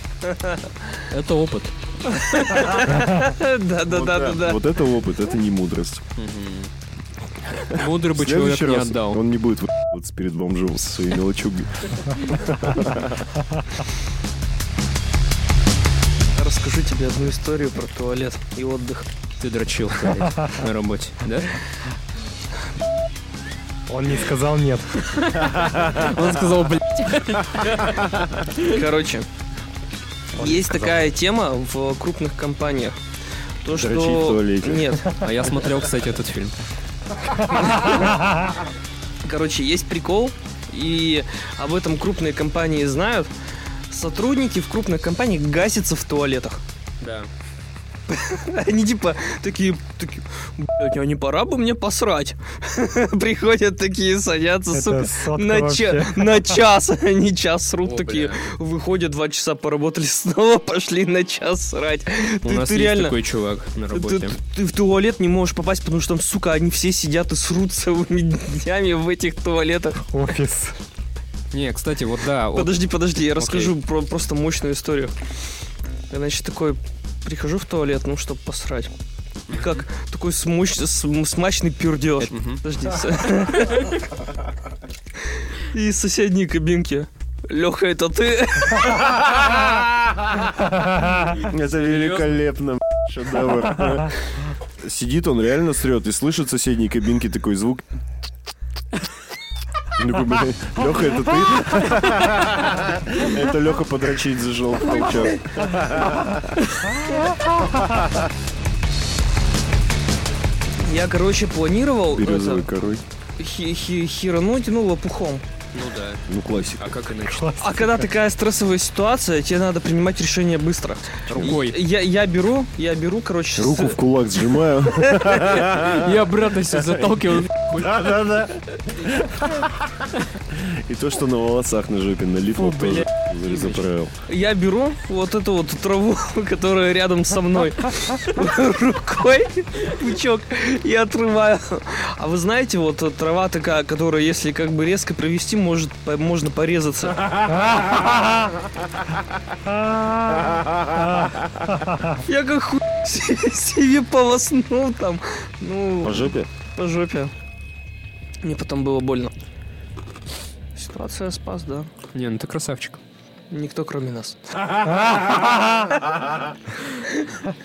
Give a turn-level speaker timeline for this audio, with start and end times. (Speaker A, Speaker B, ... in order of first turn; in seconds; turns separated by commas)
Speaker A: 0.2-1.0, Speaker B: 1.1-1.7, Speaker A: 2.0-4.6, Speaker C: 3.9-6.0, Speaker B: 6.2-6.7, Speaker B: 7.6-9.2, Speaker C: 7.8-13.2, Speaker A: 16.4-19.1, Speaker B: 19.4-21.6, Speaker D: 23.9-25.0, Speaker B: 25.1-28.8, Speaker A: 28.6-29.3, Speaker D: 30.4-31.0, Speaker A: 30.4-33.0, Speaker A: 33.6-35.1, Speaker C: 33.7-35.0, Speaker B: 35.1-36.5, Speaker A: 37.5-38.1, Speaker A: 39.2-43.3, Speaker A: 43.9-46.6, Speaker B: 47.0-47.3, Speaker A: 48.1-63.2, Speaker D: 54.7-56.5, Speaker B: 57.9-58.4, Speaker B: 62.5-64.4, Speaker A: 63.9-70.0, Speaker D: 70.1-70.8, Speaker B: 71.5-72.8, Speaker A: 72.5-75.2, Speaker B: 73.4-73.7, Speaker A: 76.1-78.9, Speaker A: 79.5-84.0, Speaker B: 82.2-82.6, Speaker A: 85.3-89.7, Speaker B: 91.2-92.3, Speaker C: 91.3-97.8, Speaker C: 100.0-106.6, Speaker A: 110.8-112.7, Speaker C: 112.1-113.0, Speaker A: 113.4-115.5, Speaker B: 115.7-116.2, Speaker C: 116.3-116.9, Speaker B: 116.8-117.5, Speaker D: 117.3-118.0, Speaker A: 117.6-124.0, Speaker B: 121.3-121.8, Speaker C: 123.6-126.2, Speaker A: 124.9-125.5, Speaker B: 125.7-127.9, Speaker C: 127.7-134.1, Speaker B: 132.6-133.8, Speaker A: 134.3-147.7, Speaker D: 149.9-150.5, Speaker A: 152.1-157.3, Speaker C: 156.0-156.5, Speaker A: 158.4-159.3, Speaker A: 160.8-161.9, Speaker B: 162.1-163.0, Speaker A: 163.5-165.9, Speaker A: 167.0-167.5